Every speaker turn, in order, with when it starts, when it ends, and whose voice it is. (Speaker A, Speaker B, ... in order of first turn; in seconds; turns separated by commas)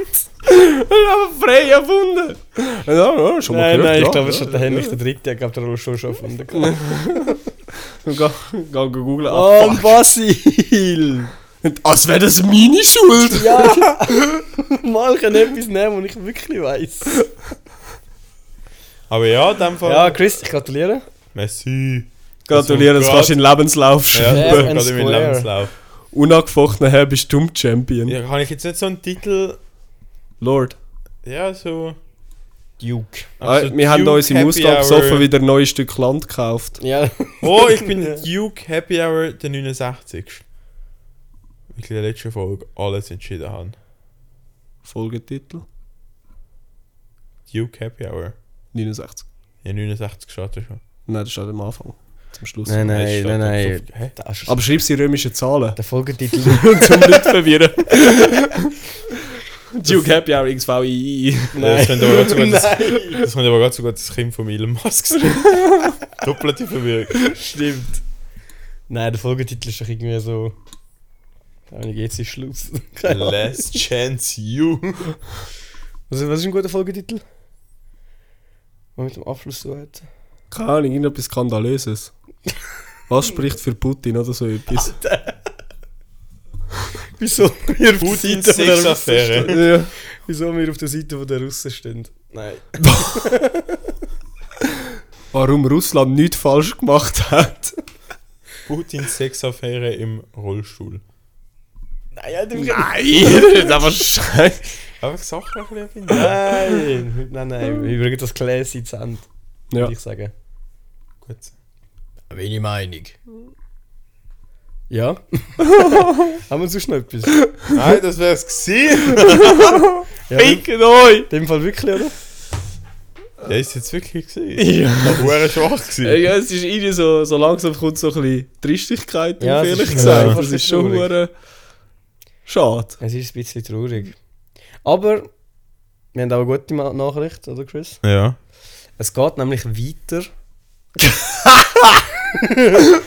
Speaker A: 0.4-5.0, Speaker B: 3.5-7.4, Speaker A: 6.6-7.4, Speaker A: 8.0-9.9, Speaker B: 9.3-11.3, Speaker A: 11.6-14.4, Speaker B: 13.2-17.2, Speaker C: 19.1-20.2, Speaker B: 19.9-21.1, Speaker C: 21.3-23.4, Speaker A: 22.5-24.7, Speaker C: 24.1-25.7, Speaker B: 24.2-25.5, Speaker A: 26.1-28.2, Speaker C: 28.1-29.6, Speaker A: 30.4-30.8, Speaker C: 31.2-32.0, Speaker B: 32.8-33.3, Speaker C: 33.4-35.3, Speaker A: 33.4-36.8, Speaker B: 36.8-38.2, Speaker C: 37.4-40.4, Speaker C: 41.7-43.8, Speaker A: 44.8-45.6, Speaker C: 47.5-48.4, Speaker A: 48.7-49.2, Speaker C: 49.6-50.8, Speaker A: 51.1-52.9, Speaker B: 52.7-54.6, Speaker C: 52.8-54.1, Speaker A: 54.5-55.8, Speaker B: 55.8-57.3, Speaker A: 56.4-58.8, Speaker A: 59.7-62.1, Speaker B: 61.5-63.2, Speaker C: 61.6-67.3, Speaker B: 67.3-68.0, Speaker B: 68.9-70.5, Speaker B: 71.7-73.8, Speaker C: 73.0-75.2, Speaker B: 76.1-77.2, Speaker B: 79.0-80.0, Speaker A: 80.5-82.1, Speaker A: 83.1-84.9, Speaker B: 84.8-85.5, Speaker B: 87.2-93.8, Speaker C: 88.0-89.6, Speaker A: 89.5-89.9, Speaker A: 92.8-93.2, Speaker A: 95.3-97.8, Speaker C: 98.7-101.0, Speaker B: 102.1-103.6, Speaker A: 102.5-104.7, Speaker C: 105.0-106.5, Speaker B: 106.1-110.3, Speaker C: 111.2-111.5, Speaker B: 112.3-113.2, Speaker B: 114.9-117.4, Speaker A: 115.8-116.3, Speaker C: 117.7-120.0, Speaker B: 120.3-120.7, Speaker A: 120.3-121.3, Speaker B: 121.3-122.2, Speaker C: 123.4-126.2, Speaker A: 124.6-125.4, Speaker A: 126.0-131.3, Speaker B: 129.4-131.1, Speaker C: 129.9-130.4, Speaker A: 132.5-133.0, Speaker B: 133.0-134.2, Speaker B: 134.8-135.3, Speaker B: 136.1-138.0, Speaker C: 138.0-138.4, Speaker B: 139.0-140.3, Speaker B: 142.3-142.9